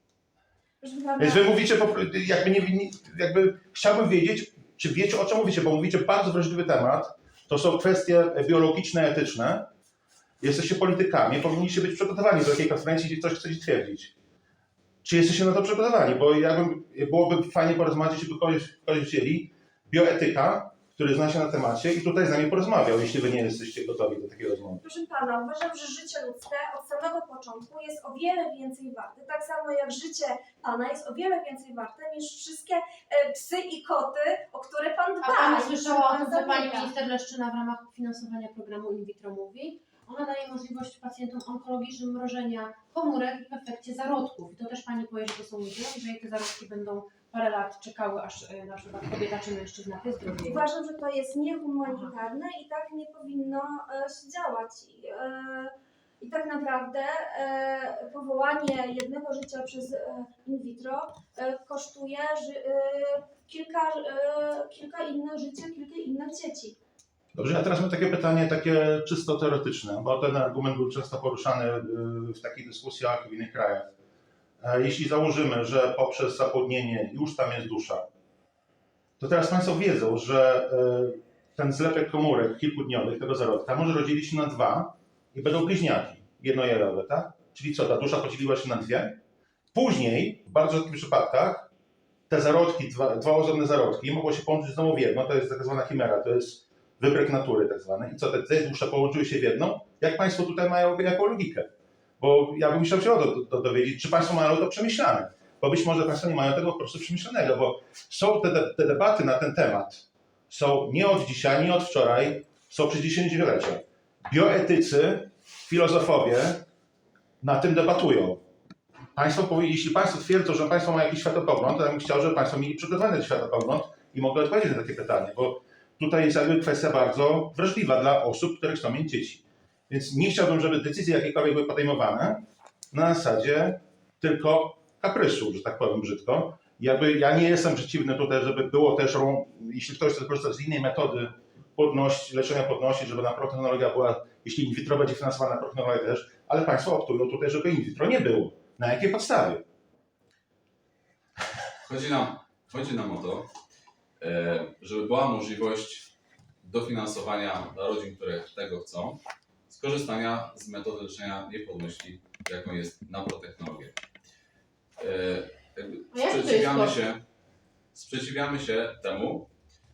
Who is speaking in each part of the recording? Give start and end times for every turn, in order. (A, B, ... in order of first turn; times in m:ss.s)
0:00.8-0:01.5 A
0:01.2-0:09.7 B
0:10.4-0:14.1 B
0:15.0-0:24.8 B
0:24.8-0:36.9 A
0:35.2-0:50.7 C
0:50.4-1:06.8 A
0:51.9-0:52.1 C
1:07.3-1:13.9 B
1:14.6-1:18.1 B
1:19.2-1:29.2 B
1:29.7-1:31.7 B
1:32.3-1:41.7 B
1:42.2-1:56.6 B
1:57.4-1:58.4 B
1:59.2-2:29.6 B
2:31.8-2:33.5 D
2:34.2-2:44.0 D
2:45.0-2:47.2 D
2:46.1-2:47.0 C
2:47.9-2:49.5 D